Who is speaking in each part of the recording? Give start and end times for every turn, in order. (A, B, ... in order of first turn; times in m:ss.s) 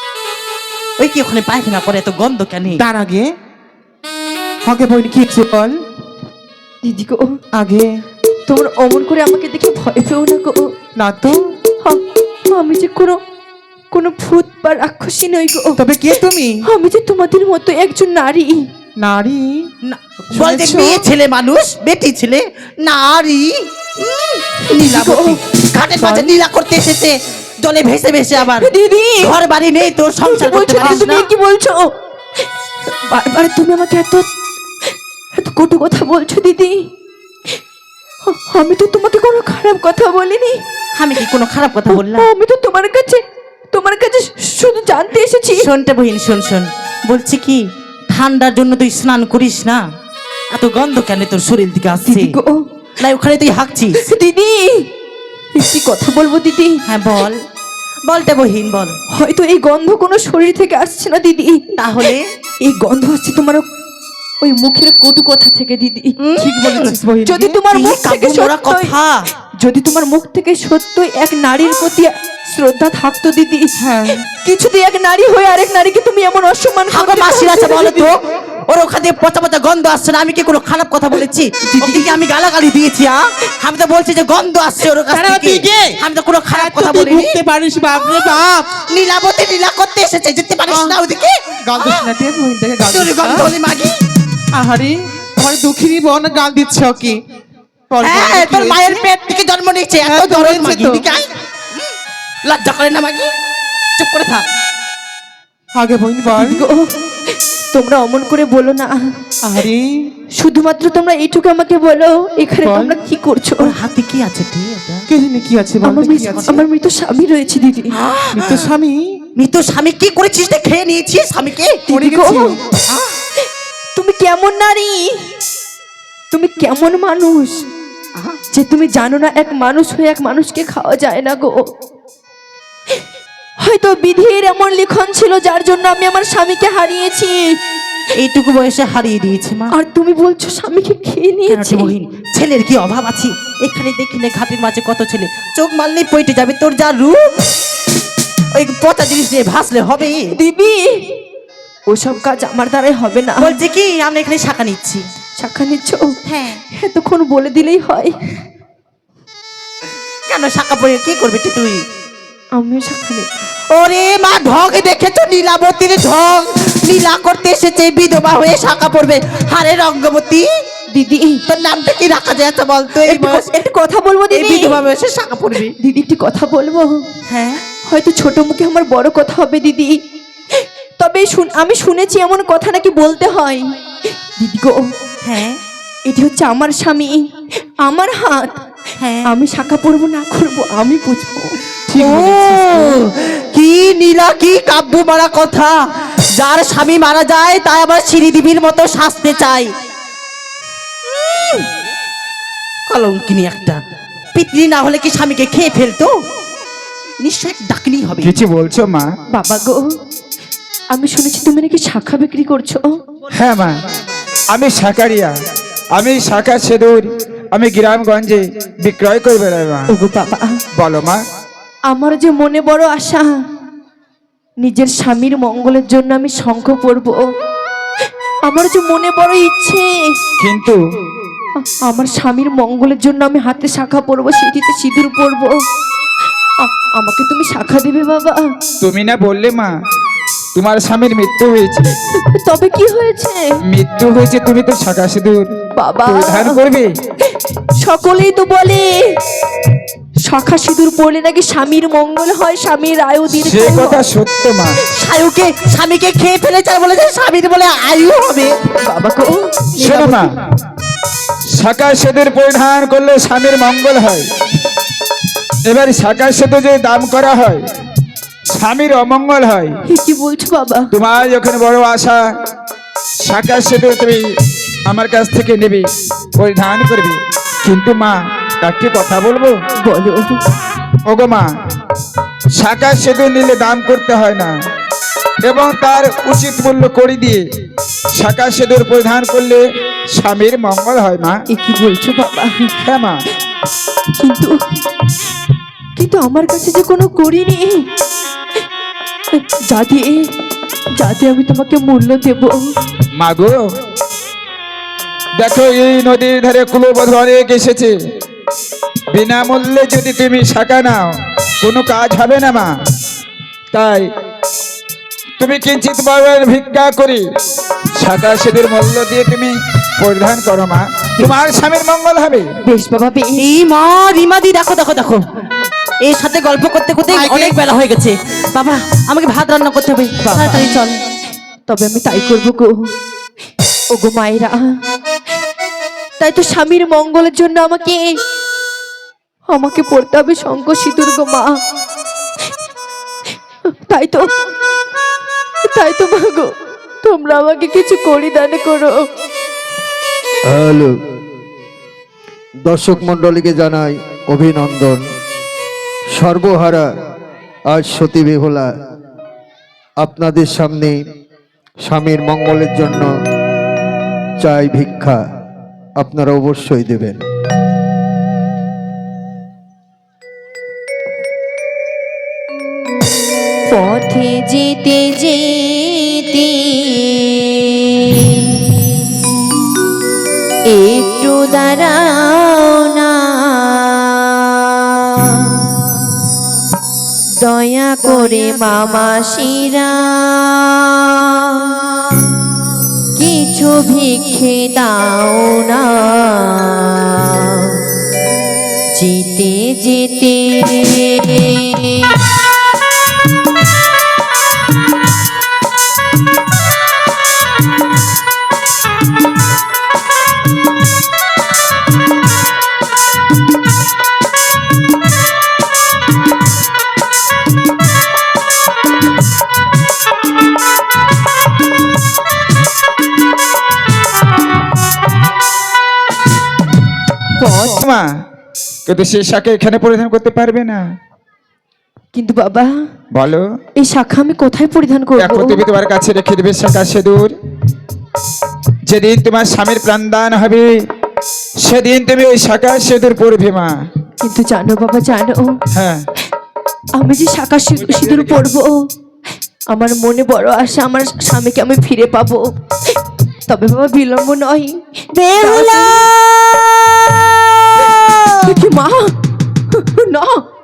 0:01.0-0:02.8 A
0:02.8-0:03.3 B
0:04.6-0:05.7 B
0:06.8-0:07.3 C
0:07.6-0:08.0 B
0:08.5-0:10.7 C
0:11.0-0:11.4 B
0:11.8-0:13.2 C
0:13.9-0:15.8 C
0:15.8-0:16.6 B
0:16.6-0:18.6 C
0:19.0-0:19.7 B
0:19.8-0:28.7 A
0:20.3-0:21.1 B
0:24.6-0:25.4 C
0:26.0-0:26.3 B
0:28.6-0:29.4 C
0:29.2-0:31.3 A
0:30.2-0:31.9 C
0:33.1-0:34.3 C
0:35.4-0:36.8 C
0:38.3-0:40.6 C
0:41.0-0:42.3 A
0:41.9-0:45.7 C
0:45.6-0:49.8 A
0:50.5-0:52.4 A
0:52.1-0:52.6 C
0:53.0-0:54.0 A
0:54.0-0:54.8 C
0:55.6-0:56.8 C
0:56.9-0:57.4 A
0:58.1-0:58.9 A
0:59.2-1:02.1 C
1:01.8-1:02.2 A
1:02.6-1:03.6 C
1:04.4-1:06.1 C
1:06.2-1:07.0 A
1:06.4-1:07.6 B
1:07.3-1:08.9 C
1:07.7-1:09.2 A
1:09.6-1:13.7 C
1:13.8-1:14.2 B
1:14.4-1:18.1 C
1:16.9-1:18.2 A
1:18.7-1:27.4 A
1:21.7-1:22.2 C
1:25.1-1:28.8 B
1:28.9-1:32.1 A
1:30.7-1:31.0 B
1:31.7-1:33.5 B
1:32.9-1:33.9 A
1:34.5-1:37.2 B
1:37.9-1:39.0 B
1:38.0-1:41.3 A
1:40.0-1:41.0 B
1:42.5-1:43.3 A
1:44.0-1:44.4 A
1:45.8-1:46.6 B
1:46.4-1:49.0 C
1:49.4-1:49.9 B
1:50.4-1:53.8 C
1:52.6-1:53.0 B
1:53.6-1:55.0 A
1:55.1-1:56.6 B
1:55.8-1:58.0 C
1:58.0-1:58.7 A
1:58.3-1:59.1 B
1:59.4-2:01.8 A
2:01.9-2:02.5 C
2:01.9-2:02.6 B
2:04.0-2:05.1 C
2:06.3-2:07.6 C
2:08.5-2:11.6 C
2:13.6-2:17.5 C
2:18.2-2:19.7 A
2:19.7-2:21.9 C
2:21.5-2:27.3 A
2:28.5-2:30.3 A
2:30.3-2:31.0 C
2:31.9-2:33.6 C
2:33.4-2:35.0 A
2:35.4-2:36.1 C
2:36.2-2:36.6 A
2:36.7-2:38.1 C
2:40.3-2:41.8 A
2:42.6-2:43.3 C
2:43.7-2:50.5 A
2:50.9-2:51.4 C
2:51.5-2:53.4 A
2:53.0-2:54.8 C
2:54.3-2:55.7 A
2:55.8-2:56.9 C
2:57.3-2:57.6 A
2:57.9-2:59.9 C
3:00.6-3:03.6 C
3:04.4-3:04.8 C
3:05.2-3:05.5 A
3:06.1-3:07.2 C
3:07.9-3:08.5 C
3:09.0-3:09.3 A
3:09.3-3:11.6 C
3:11.9-3:13.0 B
3:12.0-3:15.8 A
3:16.4-3:19.7 A
3:21.4-3:21.6 A
3:22.9-3:23.8 A
3:24.4-3:26.1 A
3:27.2-3:28.3 A
3:28.2-3:29.1 D
3:29.3-3:29.8 C
3:30.9-3:32.8 C
3:33.3-3:33.8 D
3:34.5-3:35.3 D
3:36.0-3:39.9 D
3:39.9-3:40.5 C
3:40.8-3:41.2 D
3:41.9-3:43.3 C
3:44.6-3:47.2 C
3:48.5-3:49.9 C
3:50.4-3:50.8 D
3:51.9-3:55.5 C
3:56.6-3:58.4 C
3:58.8-3:59.7 D
4:00.6-4:01.9 D
4:02.3-4:03.4 C
4:03.7-4:05.5 D
4:05.8-4:06.6 C
4:06.1-4:06.9 D
4:07.8-4:09.0 C
4:10.3-4:14.0 C
4:13.3-4:14.8 D
4:15.0-4:18.5 A
4:18.8-4:20.3 C
4:19.8-4:20.3 D
4:21.6-4:24.2 D
4:25.7-4:27.6 D
4:28.5-4:29.7 D
4:29.9-4:30.9 C
4:30.9-4:32.2 D
4:33.2-4:34.2 D
4:34.9-4:35.9 D
4:36.4-4:39.5 D
4:39.8-4:40.4 C
4:41.1-4:41.5 D
4:42.6-4:44.5 D
4:45.5-4:47.4 D
4:48.2-4:49.6 D
4:50.2-4:51.4 D
4:51.5-4:52.7 C
4:52.8-4:53.2 D
4:54.2-4:54.5 C
4:56.0-4:57.7 C
4:59.4-5:00.2 C
5:01.0-5:02.6 C
5:03.2-5:03.6 D
5:05.4-5:07.9 D
5:09.1-5:12.7 D
5:13.7-5:14.1 D
5:15.4-5:17.2 D
5:18.0-5:22.5 D
5:22.7-5:23.5 C
5:23.4-5:25.2 A
5:26.0-5:31.0 A
5:27.1-5:27.6 B
5:30.3-5:30.7 C
5:31.7-5:32.7 C
5:33.9-5:34.6 C
5:36.2-5:38.0 C
5:39.5-5:41.5 C
5:43.9-5:44.2 C
5:45.7-5:46.5 C
5:47.0-5:48.9 C
5:50.5-5:50.9 E
5:52.7-5:55.0 E
5:56.2-5:56.9 E
5:57.7-5:58.7 E
6:00.0-6:01.0 E
6:01.8-6:03.1 E
6:04.4-6:05.2 E
6:06.0-6:07.2 E
6:13.7-6:17.5 C
6:18.1-6:18.4 C
6:20.7-6:23.4 C
6:27.4-6:30.8 C
6:33.2-6:37.3 C
6:39.0-6:42.1 C
7:07.4-7:07.8 C
7:08.9-7:10.8 D
7:12.1-7:12.7 C
7:13.2-7:13.4 D
7:13.8-7:15.6 C
7:15.2-7:17.3 D
7:18.9-7:20.7 D
7:21.6-7:23.7 D
7:24.2-7:25.5 C
7:25.7-7:26.0 D
7:27.0-7:28.7 C
7:29.7-7:32.4 C
7:33.5-7:34.8 C
7:35.2-7:38.4 A
7:35.4-7:36.1 C
7:38.5-7:39.1 C
7:39.7-7:40.4 C